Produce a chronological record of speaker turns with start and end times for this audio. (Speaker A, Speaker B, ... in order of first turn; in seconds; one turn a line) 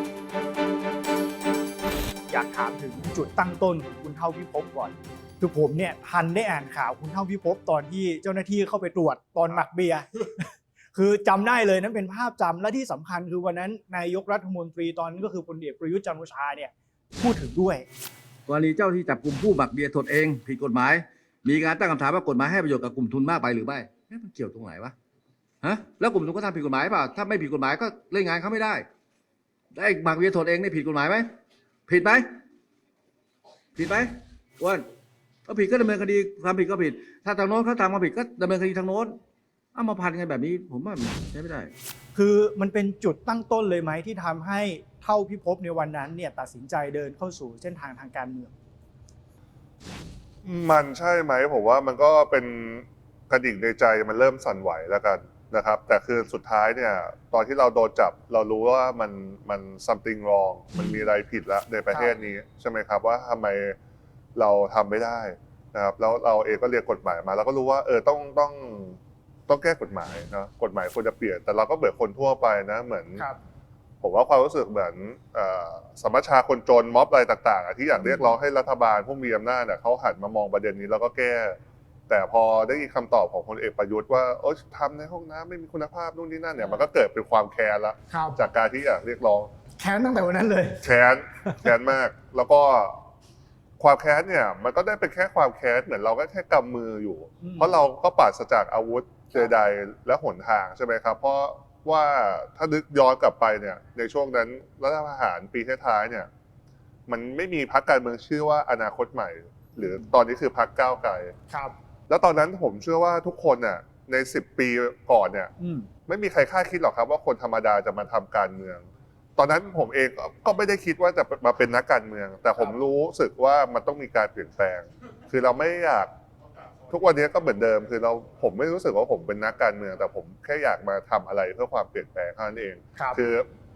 Speaker A: 2.3-17.9
Speaker B: 18.5-24.9
Speaker B: 25.6-28.9
Speaker B: 29.7-31.3
Speaker B: 31.9-32.2
Speaker B: 33.8-34.9
Speaker B: 35.5-39.2
Speaker B: 39.7-41.7
Speaker A: 42.1-48.5
Speaker C: 50.4-63.8
Speaker A: 60.7-61.1
Speaker A: 61.9-62.1
Speaker C: 64.3-73.2
Speaker C: 74.0-81.6
Speaker A: 78.0-78.3
Speaker C: 82.1-89.5
Speaker A: 88.1-88.4
Speaker A: 89.8-90.8
Speaker C: 90.8-93.0
Speaker A: 91.4-91.7
Speaker C: 93.8-106.3
Speaker A: 97.4-97.8
Speaker C: 107.1-111.3
Speaker A: 109.8-110.1
Speaker A: 111.5-111.7
Speaker C: 112.1-115.5
Speaker A: 115.6-115.9
Speaker C: 116.1-118.8
Speaker C: 119.4-126.1
Speaker C: 126.9-133.5